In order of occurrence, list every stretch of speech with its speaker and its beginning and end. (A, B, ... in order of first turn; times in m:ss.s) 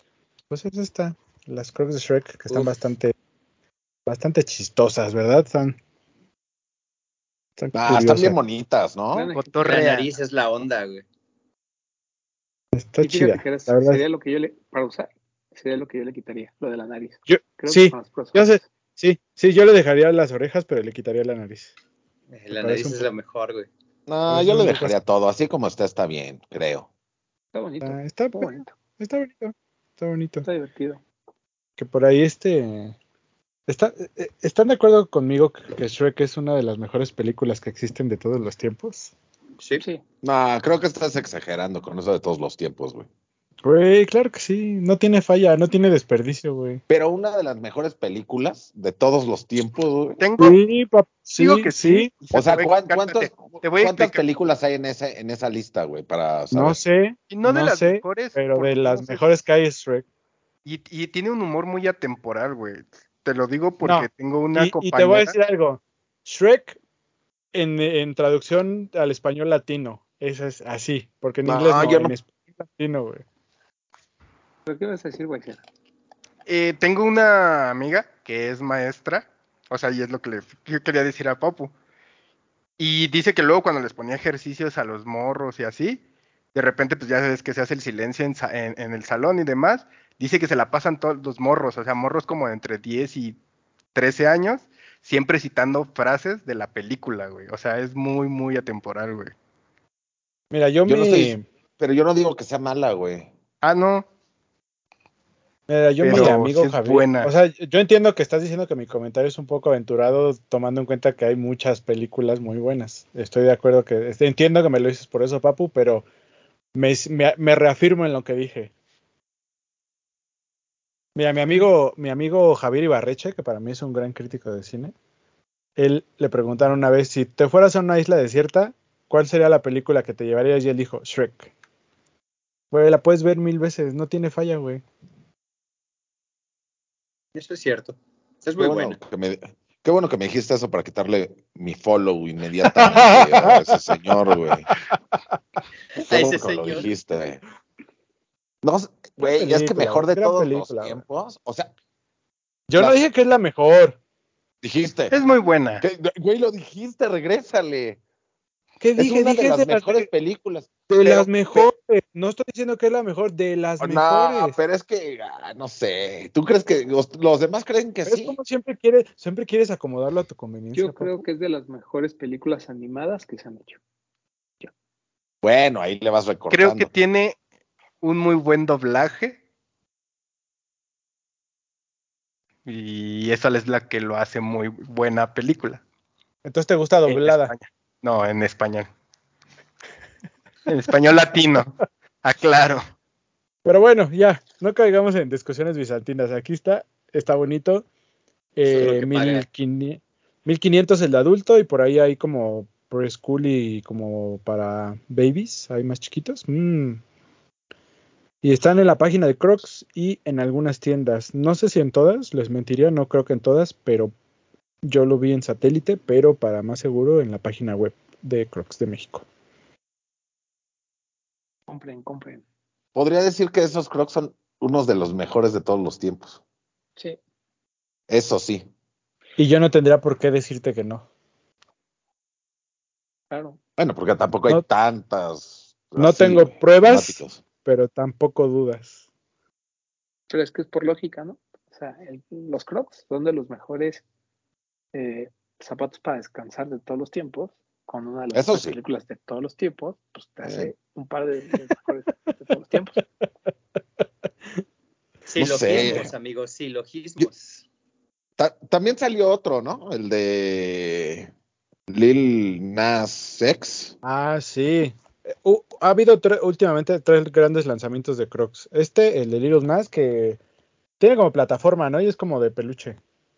0:00.5-0:03.1 A
0:04.1-0:05.8 A
0:07.6-0:08.4 A
0:07.7-0:09.3 B
0:09.1-0:09.8 C
0:09.3-0:10.1 D
0:09.6-0:11.0 E
0:12.7-0:14.0 A
0:13.0-0:18.6 C
0:17.3-0:21.7 A
0:22.3-0:23.7 E
0:22.5-0:23.1 A
0:24.1-0:26.9 B
0:24.3-0:25.0 A
0:27.5-0:28.7 C
0:27.8-0:30.5 A
0:30.4-0:31.0 C
0:31.8-0:33.0 A
0:33.7-0:39.1 A
0:40.2-0:43.1 B
0:43.6-0:46.8 A
0:46.9-0:50.2 B
0:50.2-0:50.6 D
0:50.4-0:52.1 A
0:51.4-0:54.2 D
0:52.3-0:56.8 B
0:56.5-1:00.0 A
0:57.3-0:59.3 D
1:00.6-1:05.4 D
1:03.8-1:06.8 A
1:07.5-1:13.2 A
1:11.4-1:12.1 B
1:14.7-1:15.6 C
1:16.5-1:21.7 D
1:22.8-1:26.0 D
1:26.5-1:33.4 D
1:33.9-1:39.3 D
1:40.5-1:41.4 A
1:40.9-1:43.3 B
1:43.6-1:44.1 D
1:45.7-1:56.1 A
1:46.0-1:47.3 D
1:56.8-1:58.7 A
2:01.2-2:04.9 A
2:05.8-2:11.5 A
2:12.7-2:14.8 A
2:17.4-2:19.0 E
2:18.6-2:24.7 B
2:22.6-2:23.7 A
2:26.0-2:26.9 E
2:26.0-2:27.4 B
2:28.6-2:31.7 B
2:29.2-2:31.0 A
2:32.7-2:34.0 A
2:34.6-2:35.2 B
2:35.1-2:35.8 D
2:35.8-2:38.0 B
2:38.8-2:40.1 A
2:39.0-2:41.6 B
2:40.9-2:44.6 A
2:43.8-2:48.4 B
2:48.0-2:51.2 A
2:50.8-2:53.8 C
2:55.4-2:56.9 B
2:56.5-2:57.4 D
2:58.0-2:59.4 D
3:02.6-3:05.8 D
3:06.4-3:07.5 A
3:07.1-3:08.9 D
3:10.7-3:12.8 D
3:13.6-3:17.8 A
3:18.6-3:27.0 A
3:18.7-3:19.5 E
3:28.4-3:34.1 A
3:34.8-3:39.2 A
3:41.7-3:42.4 C
3:43.0-3:46.4 B
3:48.1-3:48.7 B
3:49.4-3:51.0 A
3:53.3-3:53.6 C
3:53.8-3:57.4 B
3:56.0-3:59.0 A
4:00.3-4:04.0 C
4:04.9-4:13.0 C
4:08.3-4:08.8 B
4:10.4-4:10.7 B
4:15.3-4:17.6 E
4:15.4-4:16.1 B
4:18.4-4:21.3 B
4:21.9-4:24.0 B
4:24.0-4:30.4 A
4:31.0-4:33.0 A